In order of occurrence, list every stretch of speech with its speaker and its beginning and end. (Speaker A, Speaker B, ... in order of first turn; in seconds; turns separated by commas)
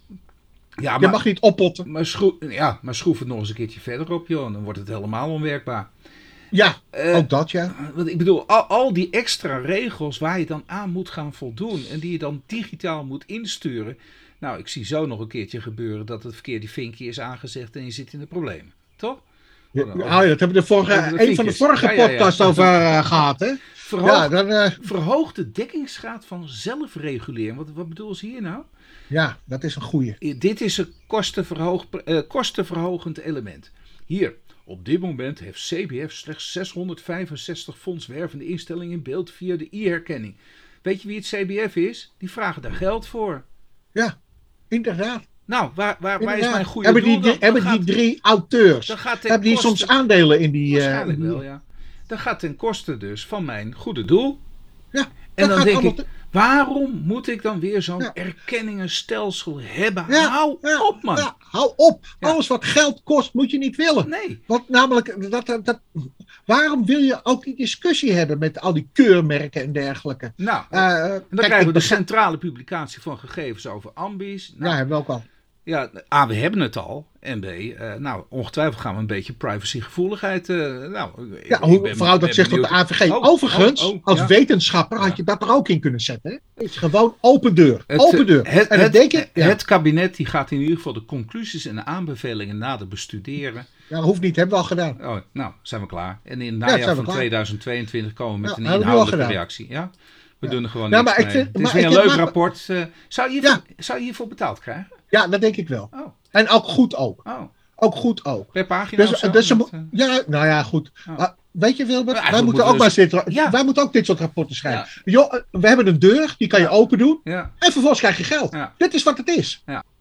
Speaker A: 0.8-1.2, Speaker B: 1.0-1.9, Speaker A: 1.9-5.9, Speaker B: 6.5-7.7, Speaker A: 6.9-19.2, Speaker A: 19.8-20.3, Speaker B: 19.8-24.9, Speaker A: 20.9-23.0, Speaker A: 23.8-28.7, Speaker B: 29.1-30.2, Speaker A: 30.2-43.5, Speaker B: 44.7-45.3, Speaker A: 45.5-47.9, Speaker B: 46.2-51.4, Speaker A: 48.9-49.9, Speaker A: 50.7-54.4, Speaker B: 54.9-56.0, Speaker A: 55.4-61.3, Speaker B: 60.1-72.0, Speaker A: 64.0-64.4, Speaker A: 70.4-74.8, Speaker B: 74.6-75.2, Speaker A: 75.7-84.3, Speaker B: 81.5-89.6, Speaker A: 87.9-93.7, Speaker B: 93.9-95.0, Speaker A: 95.0-105.0, Speaker B: 96.7-97.3, Speaker B: 98.4-99.4, Speaker B: 100.5-102.4, Speaker B: 105.1-107.2, Speaker A: 107.3-107.5, Speaker B: 107.8-119.6, Speaker A: 108.5-109.9, Speaker A: 112.1-113.6, Speaker A: 114.7-114.9, Speaker A: 117.2-117.5